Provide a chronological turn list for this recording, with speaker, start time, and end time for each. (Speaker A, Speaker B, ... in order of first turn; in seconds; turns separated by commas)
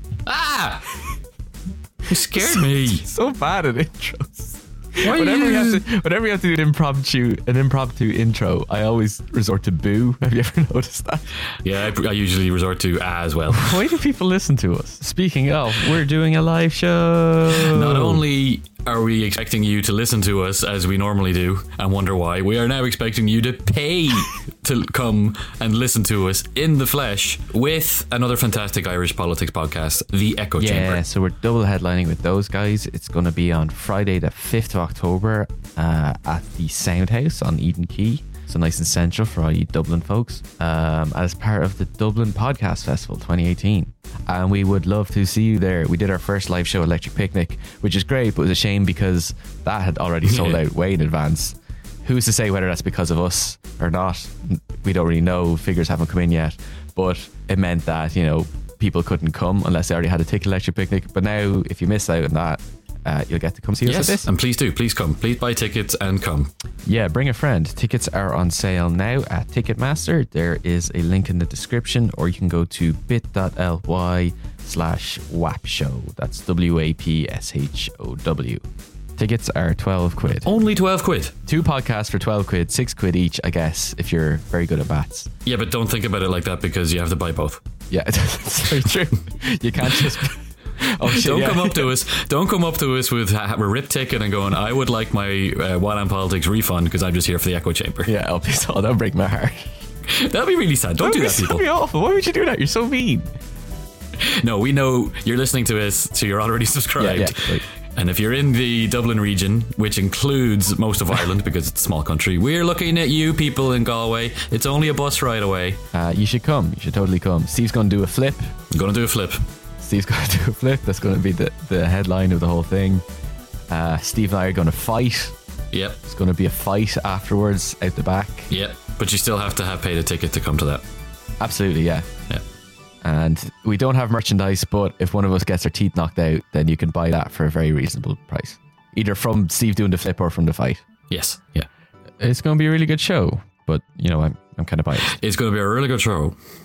Speaker A: 0.3-0.9, Speaker A: 2.1-3.0, Speaker B: 2.1-11.2, Speaker A: 5.0-5.8, Speaker A: 11.6-13.9, Speaker B: 13.5-18.2, Speaker A: 17.5-31.0, Speaker B: 30.6-64.3, Speaker A: 50.2-50.6, Speaker A: 63.9-66.5, Speaker B: 66.8-78.6, Speaker B: 79.2-80.5, Speaker A: 80.4-81.3, Speaker B: 81.5-85.3, Speaker A: 85.4-87.6, Speaker B: 87.9-91.9, Speaker A: 91.1-98.1, Speaker B: 98.0-99.7, Speaker A: 100.1-101.6, Speaker B: 101.0-103.3, Speaker A: 104.2-115.8, Speaker B: 107.0-107.6, Speaker B: 115.9-118.5, Speaker A: 118.7-119.4, Speaker B: 119.8-123.0, Speaker B: 123.7-125.3, Speaker A: 125.7-126.0, Speaker B: 126.0-128.5, Speaker A: 128.5-130.8, Speaker B: 131.4-132.1, Speaker B: 133.0-140.8, Speaker A: 141.1-141.7, Speaker B: 142.2-145.2, Speaker A: 145.0-146.4